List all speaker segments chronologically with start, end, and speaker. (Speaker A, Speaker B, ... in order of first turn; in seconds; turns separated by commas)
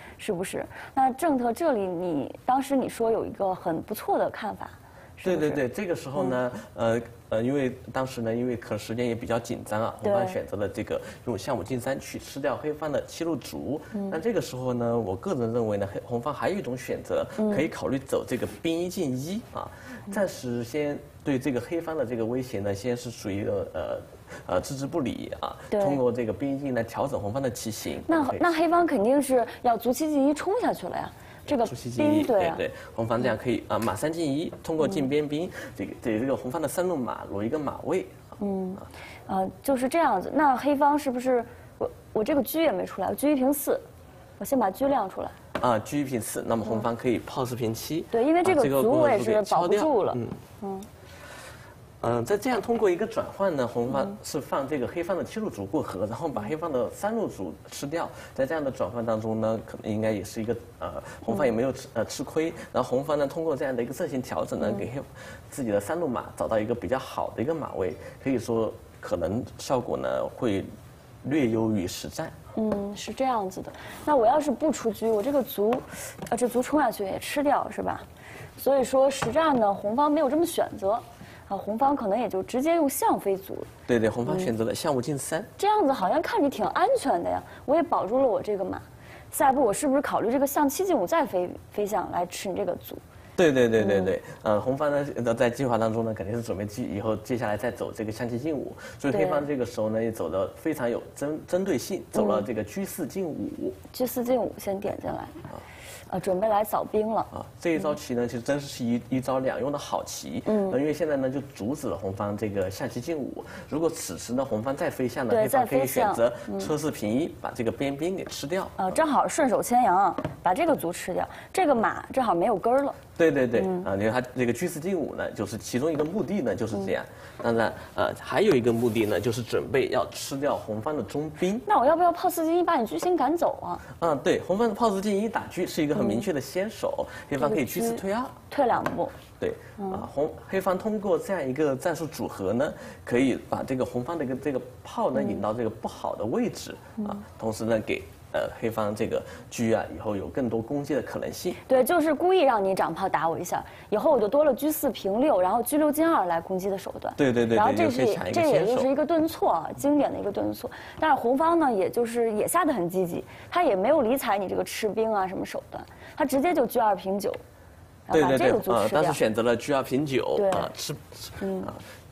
Speaker A: 0.2-5.6, Speaker B: 5.2-28.4, Speaker A: 10.0-10.4, Speaker A: 17.4-17.7, Speaker A: 25.7-26.0, Speaker A: 28.1-32.6, Speaker B: 31.5-38.2, Speaker A: 38.4-43.8, Speaker A: 44.4-45.3, Speaker B: 45.6-50.4, Speaker A: 48.1-50.9, Speaker B: 52.0-70.7, Speaker B: 71.2-72.3, Speaker A: 72.5-78.0, Speaker A: 78.6-83.7, Speaker B: 83.9-85.5, Speaker A: 85.6-93.0, Speaker B: 93.4-103.8, Speaker A: 93.8-94.1, Speaker A: 99.1-99.4, Speaker A: 102.2-102.5, Speaker A: 103.9-105.4, Speaker A: 106.1-107.3, Speaker B: 107.3-119.0, Speaker A: 110.5-110.8, Speaker A: 115.3-116.7, Speaker A: 118.8-123.0, Speaker B: 123.2-131.7, Speaker A: 123.6-123.9, Speaker A: 131.6-133.8, Speaker B: 134.0-138.4, Speaker A: 135.9-136.2, Speaker A: 137.4-139.2, Speaker B: 139.4-151.6, Speaker A: 151.7-167.4, Speaker B: 157.2-158.9, Speaker A: 168.1-169.2, Speaker B: 168.1-171.8, Speaker A: 170.3-170.7, Speaker A: 171.4-171.7